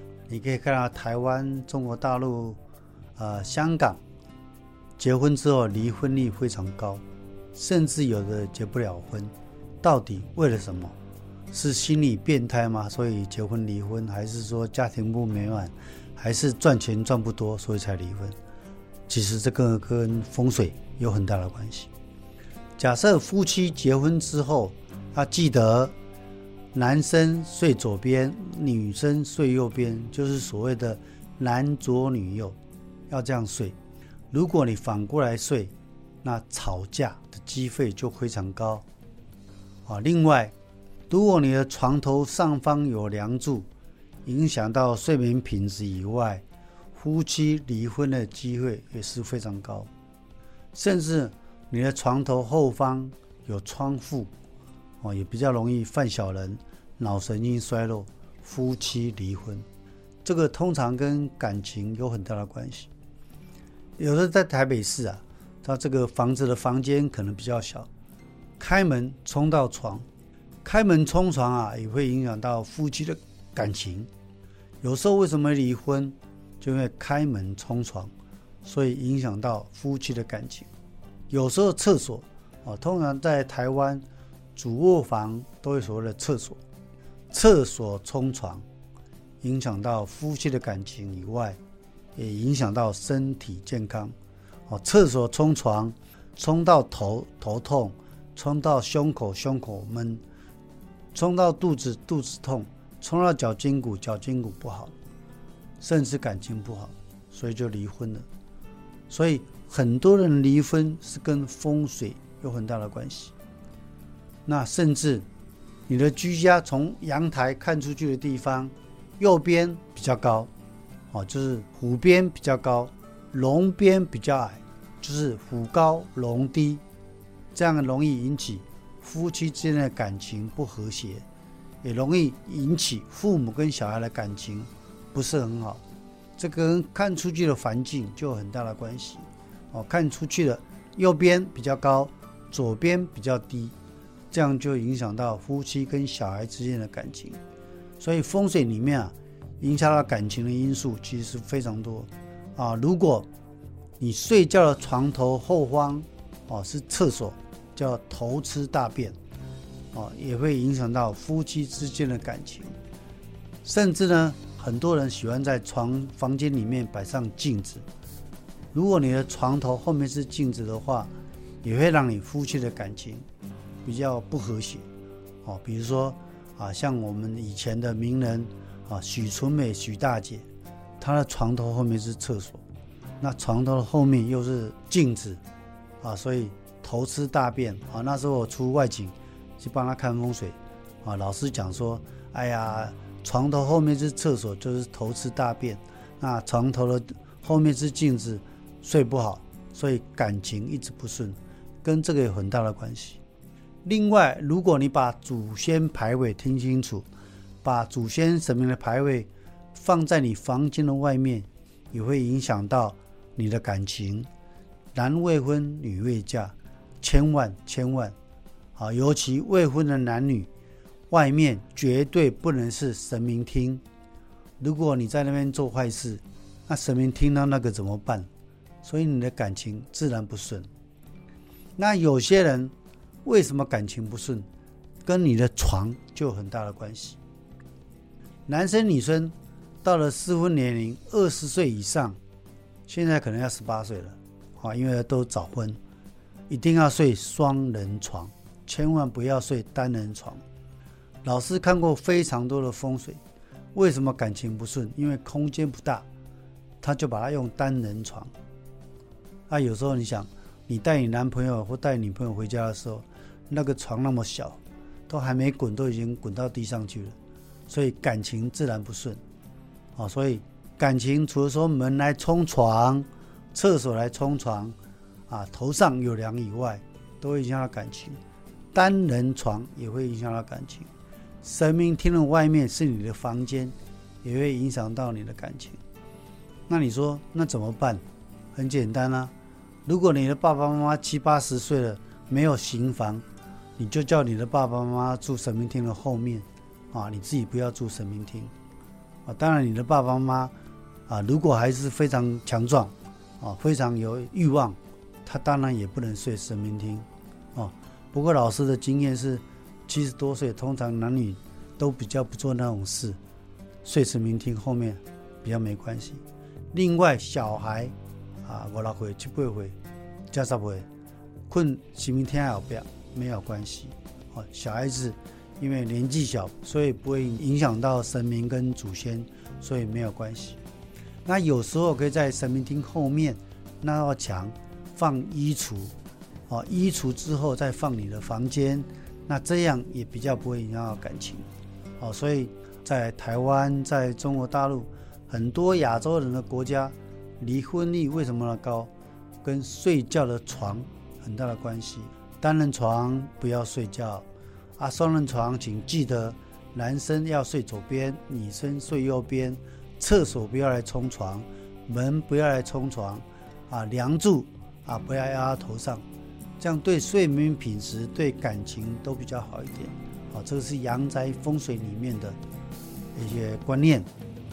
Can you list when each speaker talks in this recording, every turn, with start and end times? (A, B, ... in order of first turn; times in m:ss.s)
0:00.3-0:02.6 A
0:03.2-0:04.0 A
0:05.0-0:07.0 A
0:07.5-0:11.0 A
0:11.5-0:18.3 A
0:19.1-0:21.9 A
0:22.8-0:25.9 A
0:26.7-0:32.6 A
0:33.1-0:33.8 A
0:34.3-0:38.8 A
0:39.8-0:40.5 A
0:41.1-0:43.7 A
0:44.2-0:46.4 A
0:46.9-0:49.9 A
0:50.7-0:54.3 A
0:55.0-0:59.6 A
1:00.2-1:02.9 A
1:04.0-1:07.9 A
1:08.6-1:10.1 A
1:10.6-1:14.1 A
1:14.8-1:18.1 A
1:18.6-1:20.7 A
1:21.3-1:24.0 A
1:24.6-1:26.6 A
1:27.3-1:28.6 A
1:29.4-1:31.6 A
1:32.1-1:34.1 A
1:34.7-1:40.2 A
1:41.1-1:44.9 A
1:45.8-1:48.2 A
1:49.1-1:53.3 A
1:54.4-1:55.2 A
1:55.9-2:00.5 A
2:01.1-2:06.8 A
2:07.5-2:11.2 A
2:11.8-2:15.8 A
2:16.4-2:23.7 A
2:24.3-2:27.4 A
2:28.0-2:33.3 A
2:34.0-2:39.2 A
2:39.9-2:42.7 A
2:43.6-2:47.8 A
2:48.7-2:51.1 A
2:51.6-2:53.2 A
2:53.8-2:54.8 A
2:55.4-3:00.4 A
3:01.0-3:02.6 A
3:03.2-3:05.4 A
3:06.0-3:23.2 A
3:23.8-3:27.1 A
3:27.6-3:34.3 A
3:34.9-3:38.1 A
3:38.8-3:40.5 A
3:41.1-3:43.8 A
3:44.6-3:48.3 A
3:48.8-3:50.7 A
3:51.8-3:52.7 A
3:53.2-3:54.5 A
3:55.0-3:57.2 A
3:58.5-4:02.2 A
4:02.8-4:05.8 A
4:06.5-4:10.4 A
4:11.2-4:13.2 A
4:13.7-4:16.0 A
4:16.8-4:18.3 A
4:19.5-4:27.2 A
4:27.7-4:29.2 A
4:30.0-4:34.8 A
4:35.3-4:38.2 A
4:38.7-4:40.9 A
4:41.4-4:45.8 A
4:46.7-4:48.0 A
4:48.5-4:49.3 A
4:49.8-4:53.2 A
4:53.8-4:58.5 A
4:59.2-5:00.5 A
5:01.1-5:13.2 A
5:13.8-5:19.8 A
5:20.3-5:20.8 A
5:21.5-5:30.6 A
5:31.2-5:35.9 A
5:36.5-5:41.4 A
5:42.0-5:48.9 A
5:49.4-5:54.3 A
5:54.8-6:06.0 A
6:06.6-6:12.4 A
6:13.1-6:14.1 A